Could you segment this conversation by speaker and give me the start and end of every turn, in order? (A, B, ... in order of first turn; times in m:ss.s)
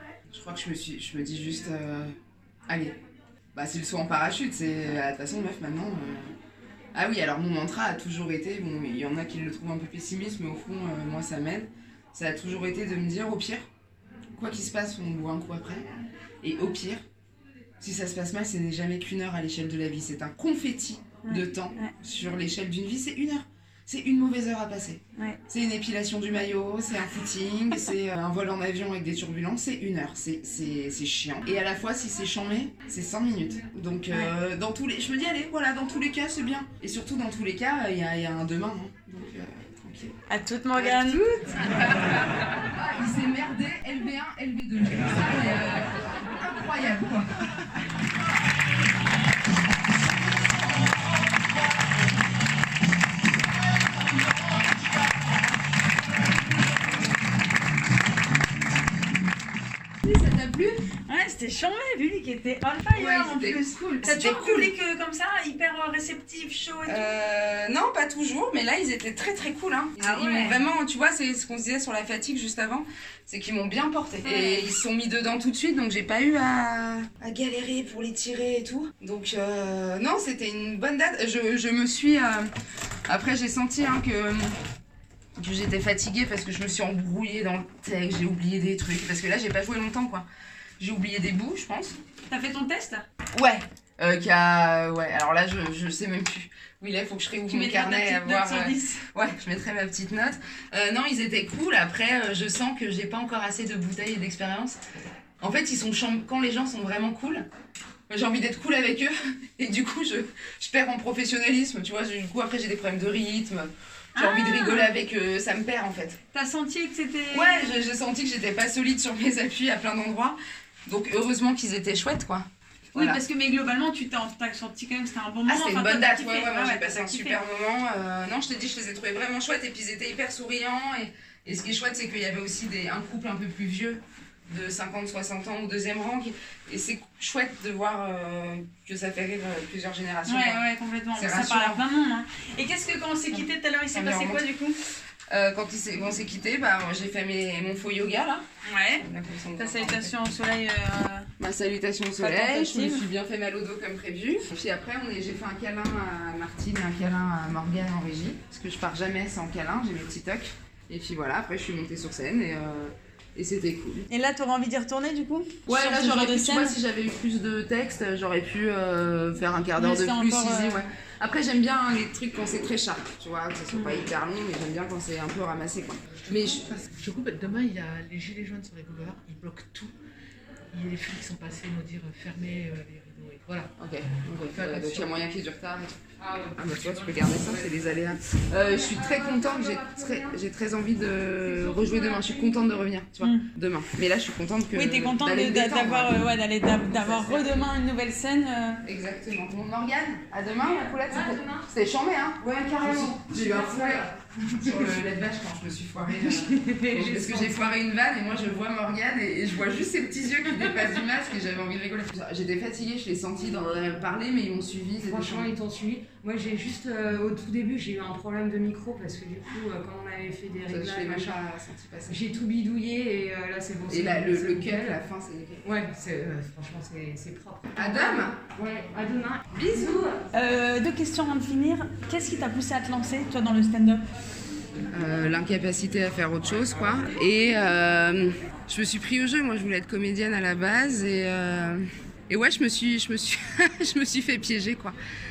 0:00.3-0:02.1 A
0:02.7-0:03.0 A
0:03.6-0:06.3 A
0:06.9-0:13.7 A
0:14.4-0:15.9 A
0:16.4-0:17.0 A
0:17.8-0:40.1 A
0:21.2-0:21.9 B
0:40.3-0:41.2 B
0:40.7-0:47.3 A
1:00.0-1:00.8 A
1:01.1-1:07.1 B
1:02.9-1:04.7 A
1:06.9-1:22.5 A
1:10.0-1:10.6 B
1:14.2-1:14.7 B
1:23.1-1:24.6 A
1:25.4-1:30.2 A
1:30.8-1:32.0 A
1:32.3-1:33.0 B
1:33.3-1:44.8 A
1:37.5-1:39.0 B
1:45.4-1:47.5 A
1:48.1-1:56.2 A
1:54.2-1:54.9 B
1:56.3-1:57.8 B
1:57.3-2:03.2 A
2:02.9-2:07.4 B
2:05.5-2:21.8 A
2:20.2-2:24.8 B
2:23.3-2:24.5 A
2:25.3-2:28.4 A
2:28.6-2:29.0 B
2:29.0-2:30.1 A
2:29.6-2:31.3 B
2:31.4-2:44.1 A
2:32.2-2:33.0 B
2:44.1-2:46.8 B
2:45.7-2:56.8 A
2:49.8-2:50.8 B
2:53.7-2:54.1 B
2:56.5-2:59.9 C
3:00.7-3:03.7 C
3:03.8-3:16.2 A
3:04.5-3:05.2 C
3:06.4-3:07.3 C
3:11.7-3:12.5 D
3:13.2-3:13.5 B
3:14.7-3:18.8 B
3:16.9-3:17.6 A
3:18.8-3:35.5 A
3:20.6-3:21.7 D
3:22.4-3:24.9 D
3:26.2-3:27.6 D
3:35.0-3:41.4 D
3:40.7-3:42.2 A
3:42.1-3:45.0 D
3:43.9-3:45.6 A
3:45.6-3:50.2 D
3:47.8-3:48.5 A
3:49.5-3:50.0 A
3:50.3-3:54.0 B
3:54.9-4:05.0 A